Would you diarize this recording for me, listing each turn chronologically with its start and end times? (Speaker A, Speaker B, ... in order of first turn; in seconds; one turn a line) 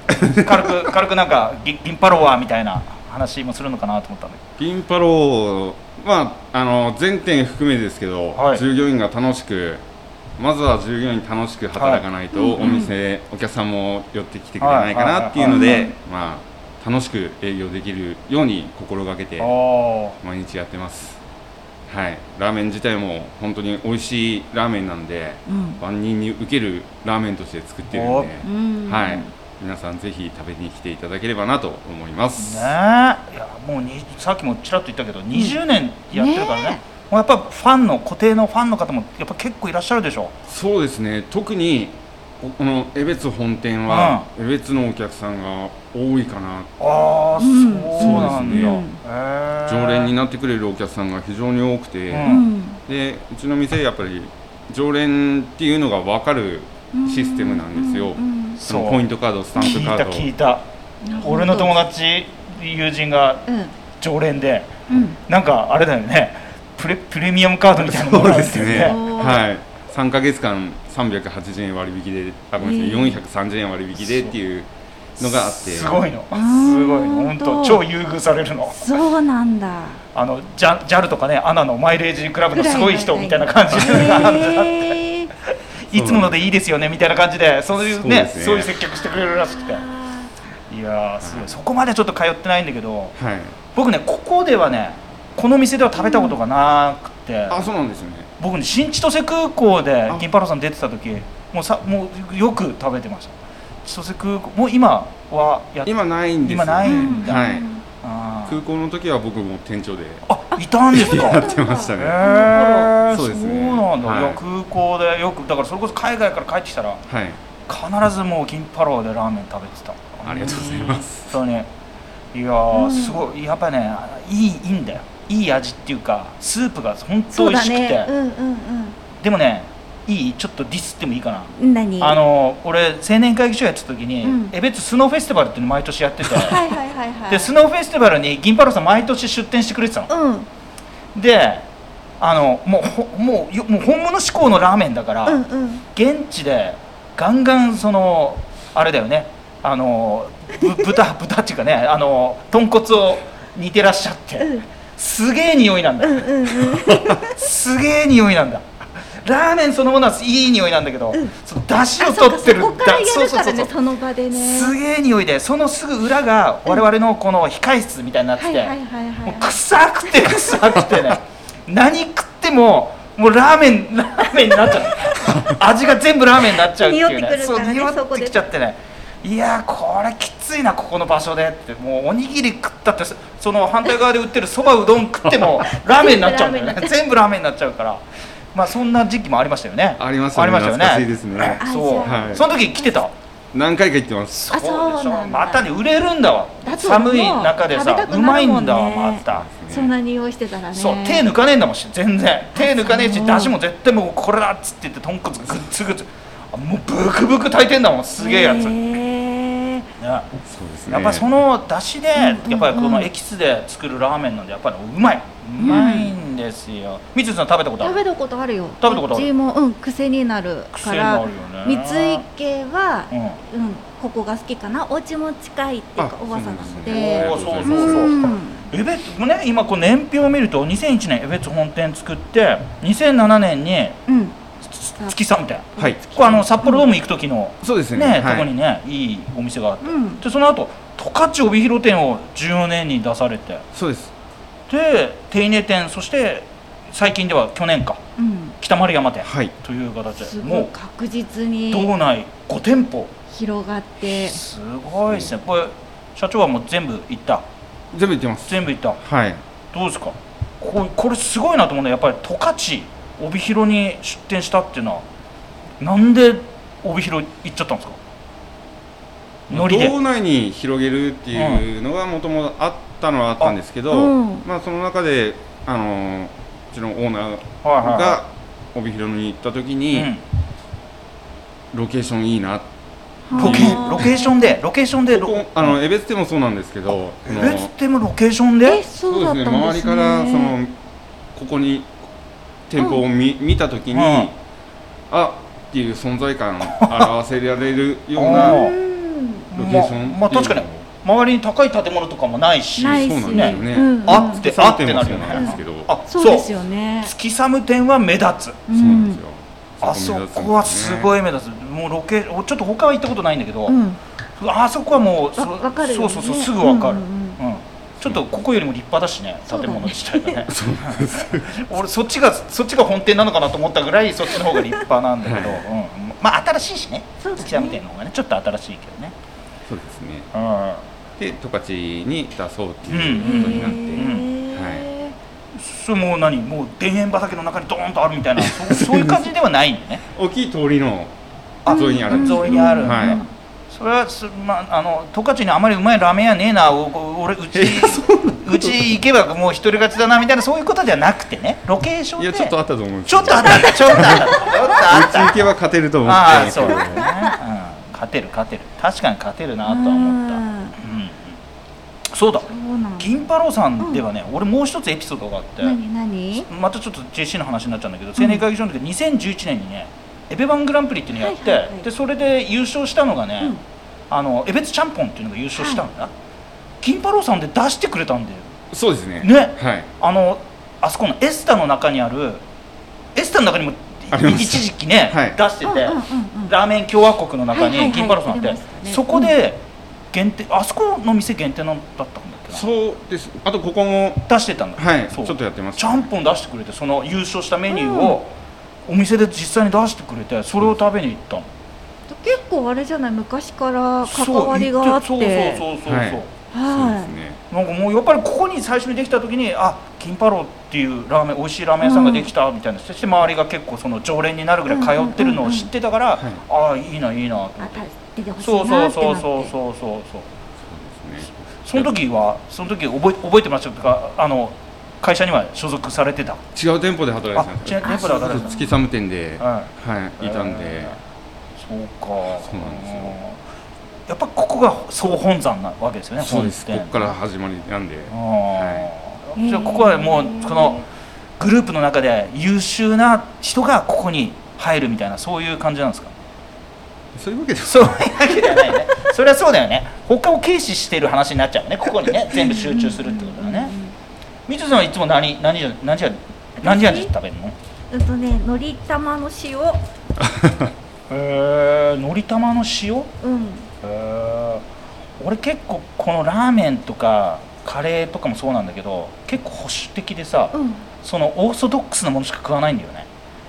Speaker A: 0.1-4.4
Speaker B: 0.2-0.5
Speaker B: 4.6-9.8
Speaker A: 8.3-8.6
Speaker B: 10.4-19.6
Speaker A: 11.8-12.0
Speaker C: 12.3-12.9
Speaker A: 14.6-15.7
Speaker C: 15.4-15.9
Speaker A: 19.4-20.2
Speaker B: 20.2-21.2
Speaker B: 21.9-32.7
Speaker C: 25.5-25.8
Speaker A: 27.9-28.3
Speaker C: 28.4-29.3
Speaker A: 32.4-40.3
Speaker C: 35.3-35.6
Speaker C: 36.1-36.8
Speaker B: 40.5-46.7
Speaker A: 43.9-44.3
Speaker A: 46.8-50.1
Speaker C: 47.4-49.0
Speaker B: 48.0-48.8
Speaker B: 49.7-52.3
Speaker A: 52.1-52.4
Speaker C: 52.2-52.8
Speaker B: 52.9-60.3
Speaker C: 56.9-58.6
Speaker A: 58.6-59.0
Speaker C: 59.6-59.9
Speaker A: 59.6-60.6
Speaker C: 61.0-61.7
Speaker A: 61.2-63.5
Speaker C: 63.5-63.7
Speaker A: 64.0-64.8
Speaker C: 64.9-65.2
Speaker A: 65.2-69.0
Speaker B: 67.8-76.1
Speaker C: 68.8-69.4
Speaker C: 72.6-73.2
Speaker A: 74.0-74.3
Speaker A: 75.2-79.0
Speaker C: 76.3-77.8
Speaker C: 78.7-80.0
Speaker A: 80.1-89.9
Speaker C: 82.5-85.3
Speaker B: 85.9-86.6
Speaker B: 87.8-88.7
Speaker C: 88.9-90.3
Speaker A: 90.7-93.2
Speaker B: 91.2-91.6
Speaker B: 93.2-93.6
Speaker A: 93.7-97.7
Speaker C: 96.0-96.4
Speaker B: 97.5-98.3
Speaker A: 98.4-105.9
Speaker B: 105.9-107.7
Speaker A: 106.4-107.4
Speaker C: 106.8-107.8
Speaker A: 108.0-108.6
Speaker B: 108.5-110.2
Speaker A: 110.2-111.4
Speaker C: 110.9-112.9
Speaker B: 110.9-112.2
Speaker A: 112.0-117.0
Speaker B: 113.1-114.4
Speaker B: 117.1-117.4
Speaker A: 117.7-121.7
Speaker B: 120.2-121.4
Speaker A: 122.3-128.1
Speaker C: 122.7-123.2
Speaker C: 127.3-129.0
Speaker A: 129.2-136.7
Speaker C: 131.6-132.2
Speaker C: 134.2-134.5
Speaker C: 136.3-137.5
Speaker A: 137.3-140.1
Speaker C: 140.1-140.5
Speaker A: 141.2-141.7
Speaker A: 142.2-163.7
Speaker C: 145.2-145.8
Speaker C: 154.4-154.7
Speaker C: 156.0-157.4
Speaker C: 162.0-164.8
Speaker A: 164.3-193.1
Speaker C: 168.4-170.6
Speaker C: 176.4-178.4
Speaker C: 185.7-186.9
Speaker B: 190.0-192.4
Speaker C: 191.6-192.9
Speaker B: 193.5-194.4
Speaker A: 194.3-199.5
Speaker C: 194.5-195.7
Speaker C: 196.7-201.3
Speaker B: 199.3-199.9
Speaker A: 200.7-208.8
Speaker C: 202.6-203.6
Speaker C: 208.2-209.9
Speaker A: 210.0-210.3
Speaker B: 210.4-211.3
Speaker A: 210.9-218.0
Speaker C: 212.2-213.1
Speaker C: 215.6-216.1
Speaker C: 217.8-228.7
Speaker A: 218.8-219.3
Speaker A: 220.7-222.2
Speaker A: 223.1-223.4
Speaker B: 226.0-228.3
Speaker A: 226.9-234.0
Speaker C: 234.1-234.4
Speaker A: 234.7-243.6
Speaker B: 235.8-236.4
Speaker C: 236.6-236.9
Speaker B: 237.6-238.5
Speaker C: 239.8-240.2
Speaker B: 243.7-244.1
Speaker A: 244.7-248.0
Speaker C: 248.2-248.6
Speaker A: 248.6-250.7
Speaker B: 249.2-249.6
Speaker C: 250.2-251.9
Speaker A: 251.7-253.1
Speaker C: 253.3-254.4
Speaker A: 254.1-257.4
Speaker B: 257.9-259.4
Speaker A: 258.5-259.0
Speaker A: 259.7-265.1
Speaker A: 265.8-268.0
Speaker A: 269.5-269.9
Speaker B: 269.5-280.1
Speaker A: 271.3-271.6
Speaker C: 273.9-274.4
Speaker A: 277.6-278.2
Speaker A: 279.9-280.2
Speaker B: 281.7-282.7
Speaker C: 283.3-284.5
Speaker B: 283.3-284.2
Speaker A: 283.4-285.8
Speaker B: 285.1-287.7
Speaker A: 287.3-288.8
Speaker C: 288.7-290.6
Speaker B: 289.1-290.8
Speaker B: 291.4-291.9
Speaker B: 292.7-294.4
Speaker A: 293.9-294.3
Speaker B: 295.1-298.7
Speaker A: 296.8-297.1
Speaker A: 298.2-298.8
Speaker C: 298.2-299.5
Speaker A: 299.5-308.7
Speaker B: 299.6-300.9
Speaker C: 302.8-304.4
Speaker B: 302.9-305.9
Speaker C: 305.3-307.1
Speaker C: 308.7-309.2
Speaker B: 308.7-311.1
Speaker A: 309.8-313.8
Speaker C: 313.7-314.0
Speaker A: 314.4-329.1
Speaker C: 315.4-317.4
Speaker C: 319.5-320.4
Speaker B: 320.5-321.7
Speaker C: 324.4-324.7
Speaker B: 325.2-325.6
Speaker C: 327.2-327.8
Speaker B: 329.7-330.3
Speaker A: 330.3-330.8
Speaker B: 331.2-334.9
Speaker A: 332.9-334.3
Speaker C: 333.2-335.1
Speaker A: 335.6-340.0
Speaker B: 338.4-339.3
Speaker B: 340.1-341.1
Speaker A: 341.6-352.5
Speaker B: 341.7-343.2
Speaker C: 341.7-343.3
Speaker B: 347.5-349.0
Speaker B: 352.2-357.1
Speaker A: 353.1-355.5
Speaker C: 354.3-354.7
Speaker A: 356.0-361.3
Speaker C: 356.6-357.3
Speaker C: 359.6-360.8
Speaker A: 362.1-365.8
Speaker C: 362.5-363.1
Speaker C: 365.6-366.5
Speaker A: 366.5-373.5
Speaker C: 368.2-368.4
Speaker C: 371.2-371.8
Speaker A: 374.1-376.1
Speaker C: 375.6-375.8
Speaker A: 376.8-378.5
Speaker B: 378.7-379.9
Speaker A: 379.2-382.4
Speaker A: 383.1-392.6
Speaker B: 384.1-385.4
Speaker C: 385.6-386.6
Speaker C: 387.5-389.3
Speaker B: 392.5-396.1
Speaker A: 394.3-398.3
Speaker C: 397.7-398.2
Speaker A: 398.9-401.5
Speaker C: 402.1-405.6
Speaker A: 404.1-406.3
Speaker B: 405.9-407.4
Speaker C: 406.5-407.1
Speaker A: 407.5-417.9
Speaker C: 411.8-412.3
Speaker C: 414.7-415.7
Speaker C: 417.6-419.5
Speaker A: 418.4-420.3
Speaker B: 420.6-421.9
Speaker A: 421.6-426.4
Speaker B: 426.5-430.9
Speaker A: 427.3-428.6
Speaker C: 427.8-428.8
Speaker A: 429.4-431.0
Speaker A: 431.6-433.4
Speaker B: 432.4-433.2
Speaker A: 434.1-437.2
Speaker B: 436.2-438.9
Speaker A: 438.1-440.9
Speaker C: 439.4-440.8
Speaker A: 441.4-446.1
Speaker B: 447.1-448.1
Speaker A: 447.6-453.7
Speaker C: 452.3-453.9
Speaker A: 454.5-457.6
Speaker C: 456.6-457.1
Speaker C: 457.9-459.8
Speaker B: 460.2-460.7
Speaker A: 461.1-463.1
Speaker C: 463.2-463.7
Speaker A: 463.8-464.6
Speaker A: 465.2-473.1
Speaker C: 470.5-470.8